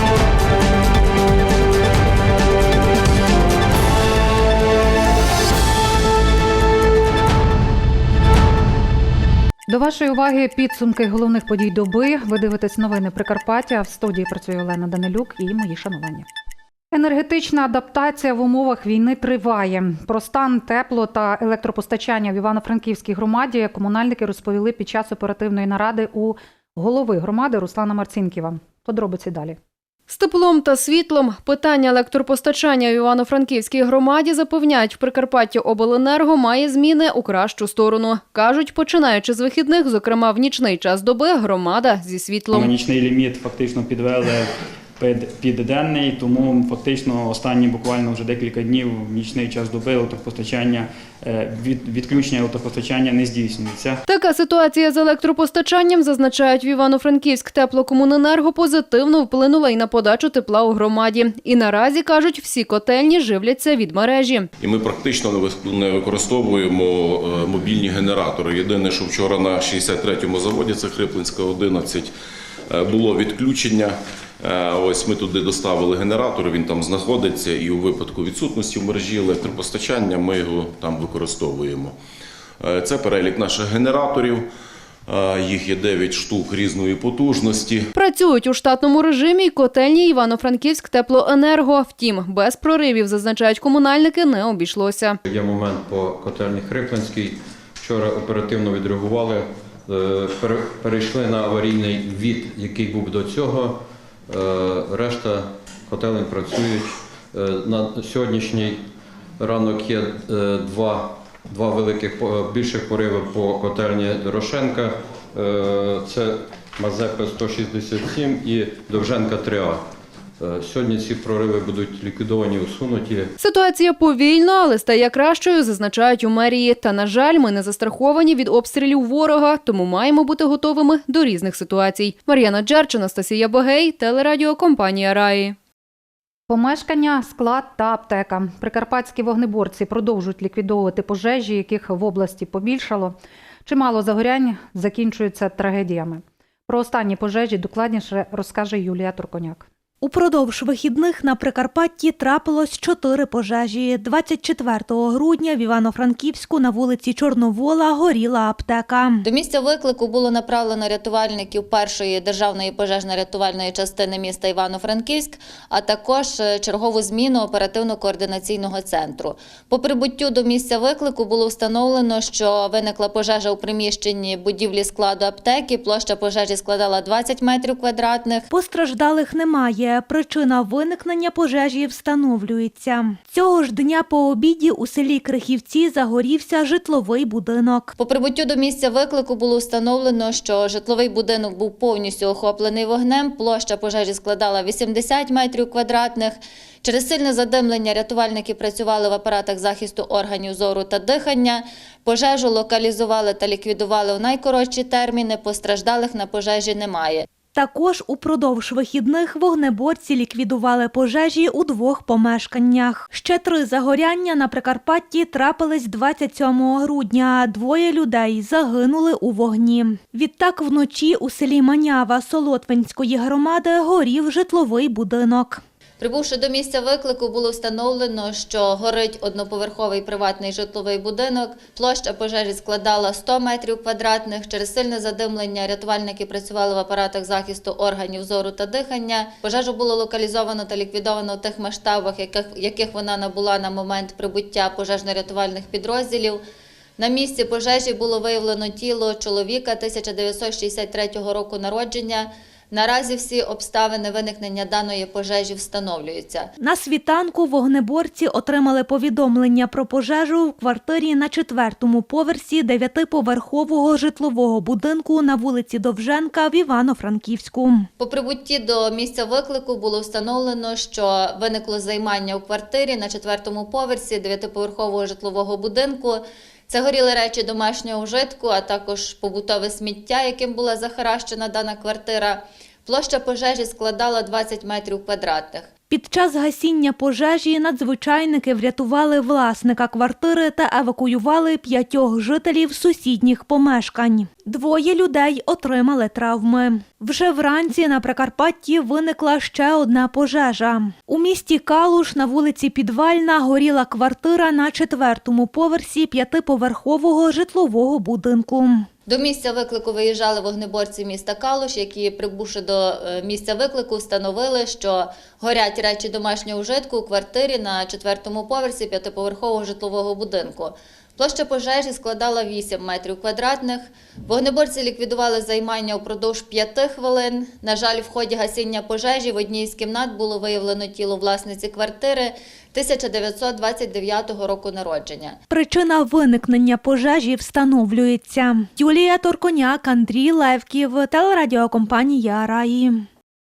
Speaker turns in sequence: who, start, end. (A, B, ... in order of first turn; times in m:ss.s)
0:09.7-0:16.3 A
0:16.9-0:29.6 A
0:30.1-0:42.8 B
0:42.6-0:54.0 C
0:54.1-1:04.5 B
1:04.6-1:12.1 D
1:12.7-1:22.0 D
1:22.6-1:24.5 D
1:25.1-1:27.9 D
1:27.9-1:35.2 B
1:35.2-1:48.9 E
1:49.4-2:03.3 E
2:03.4-2:15.6 B
2:16.5-2:29.7 A
2:30.0-2:39.2 F
2:39.2-2:58.5 G
2:58.5-3:07.9 F
3:08.0-3:27.2 G
3:27.5-3:45.6 F
3:46.0-4:06.4 G
4:07.0-4:16.5 G
4:16.6-4:27.9 F
4:28.0-4:45.7 G
4:45.9-5:08.9 F
5:09.1-5:35.4 G
5:35.5-5:43.1 F